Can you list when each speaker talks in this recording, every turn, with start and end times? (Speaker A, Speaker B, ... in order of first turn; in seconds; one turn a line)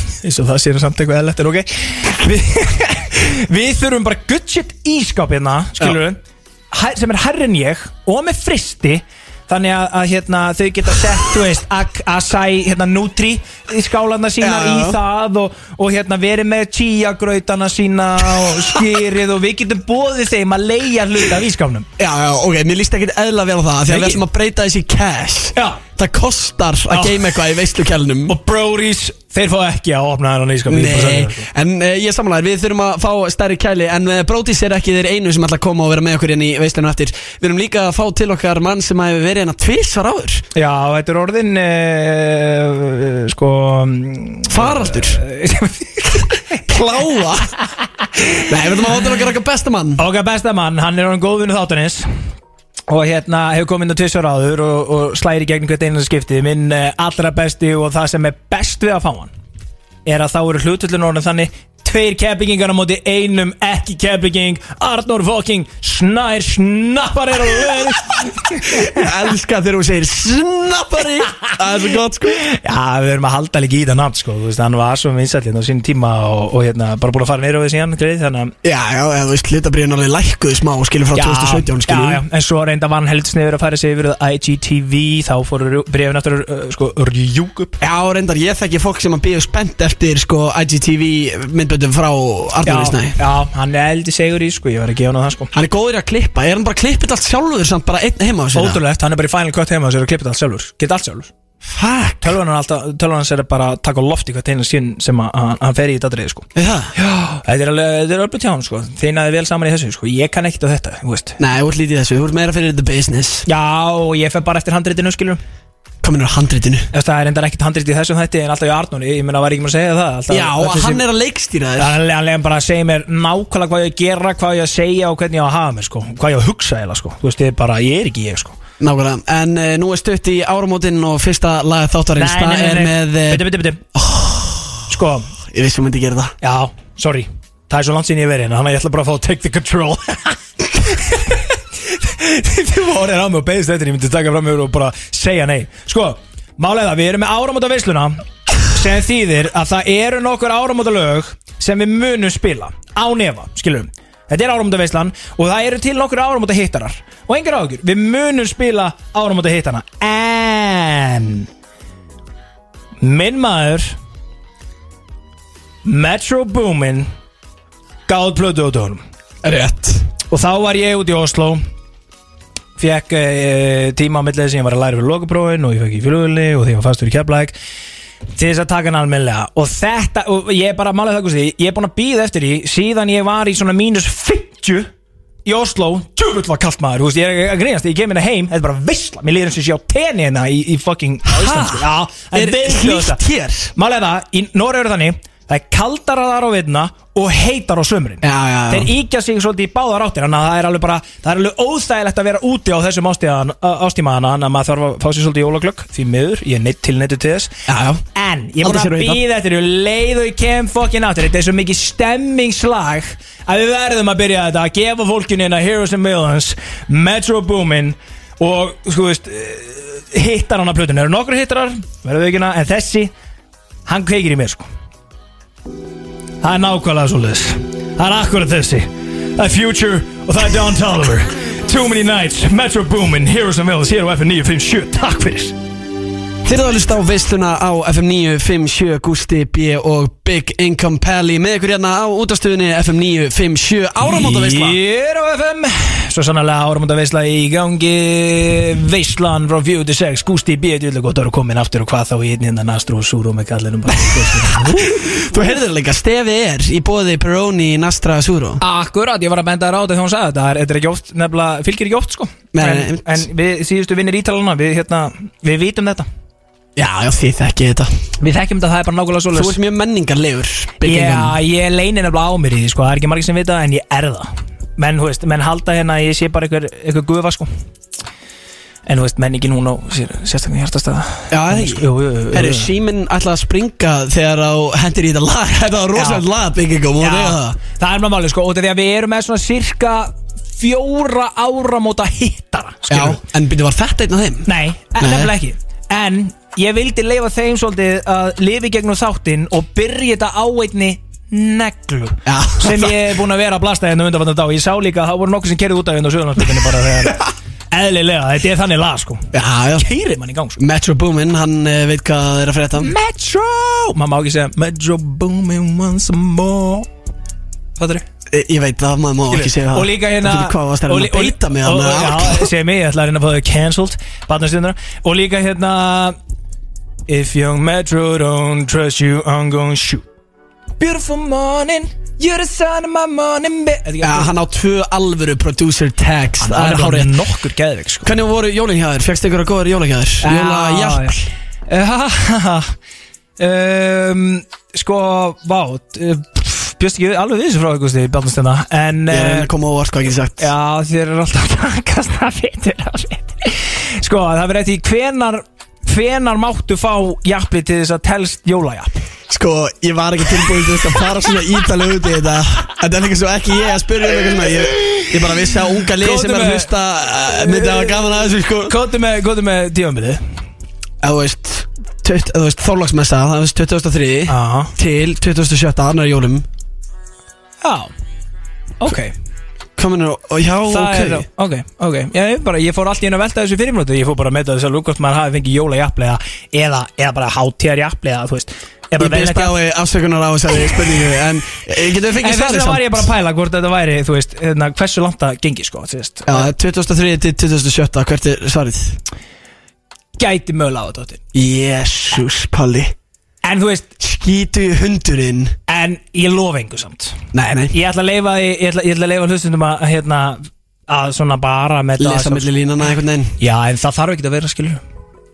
Speaker A: 0.2-21.9
Speaker B: 14.4-15.0
Speaker B: 22.0-28.3
Speaker A: 23.9-24.2
Speaker A: 25.6-25.8
Speaker A: 26.9-27.5
Speaker A: 28.3-31.5
Speaker B: 30.7-40.4
Speaker A: 40.5-46.6
Speaker B: 44.5-45.2
Speaker B: 46.7-47.5
Speaker B: 48.4-50.0
Speaker A: 50.0-52.1
Speaker A: 52.9-59.3
Speaker A: 60.1-69.0
Speaker B: 68.7-72.4
Speaker A: 72.4-78.5
Speaker B: 78.6-82.2
Speaker A: 81.1-87.8
Speaker B: 87.8-93.2
Speaker A: 92.7-95.5
Speaker B: 95.5-98.8
Speaker A: 98.5-101.3
Speaker B: 101.6-102.3
Speaker A: 102.2-111.4
Speaker B: 106.6-106.9
Speaker B: 111.4-113.5
Speaker A: 113.5-115.4
Speaker B: 116.0-116.9
Speaker A: 116.9-121.1
Speaker B: 120.3-121.9
Speaker A: 121.8-128.6
Speaker B: 128.8-133.4
Speaker A: 132.2-133.9
Speaker B: 134.0-134.6
Speaker A: 134.9-135.3
Speaker B: 135.5-136.3
Speaker A: 136.4-161.5
Speaker A: 163.0-164.0
Speaker A: 165.8-167.1
Speaker A: 168.1-169.0
Speaker B: 169.4-170.1
Speaker A: 170.3-171.6
Speaker A: 172.8-177.6
Speaker A: 178.4-184.9
Speaker A: 185.4-193.2
Speaker B: 191.3-193.7
Speaker A: 193.8-207.6
Speaker B: 198.2-198.9
Speaker B: 207.7-208.0
Speaker A: 208.1-223.1
Speaker B: 208.6-209.2
Speaker A: 223.9-224.7
Speaker A: 226.4-235.6
Speaker B: 236.4-244.8
Speaker A: 244.0-255.5
Speaker B: 254.9-258.6
Speaker A: 258.6-266.1
Speaker B: 262.5-263.2
Speaker B: 266.8-267.9
Speaker A: 268.2-269.6
Speaker B: 269.3-271.4
Speaker A: 270.8-277.5
Speaker A: 278.9-282.7
Speaker B: 281.3-287.6
Speaker A: 285.9-286.3
Speaker A: 287.0-293.2
Speaker B: 292.9-295.3
Speaker A: 294.5-310.6
Speaker B: 302.3-302.9
Speaker B: 309.3-309.9
Speaker B: 310.6-312.9
Speaker A: 312.8-316.9
Speaker A: 317.8-318.1
Speaker B: 318.3-322.5
Speaker A: 319.3-326.2
Speaker A: 327.1-330.1
Speaker A: 330.8-334.3
Speaker B: 334.0-337.2
Speaker A: 336.4-338.1
Speaker B: 338.0-341.2
Speaker A: 340.2-342.7
Speaker A: 343.4-349.5
Speaker B: 349.1-350.5
Speaker A: 350.4-359.0
Speaker B: 359.3-368.8
Speaker A: 364.7-365.1
Speaker A: 366.0-366.7
Speaker A: 367.2-370.2
Speaker B: 371.0-376.4
Speaker A: 374.3-374.7
Speaker A: 377.6-377.9
Speaker A: 378.8-379.1
Speaker B: 379.8-381.3
Speaker A: 380.7-389.6
Speaker B: 389.0-393.1
Speaker A: 392.2-396.5
Speaker B: 396.3-399.0
Speaker A: 400.2-401.2
Speaker B: 401.3-402.9
Speaker A: 403.4-403.9
Speaker B: 404.0-405.6
Speaker A: 405.7-407.2
Speaker B: 407.3-407.7
Speaker A: 407.7-412.5
Speaker B: 412.0-413.4
Speaker A: 413.4-414.8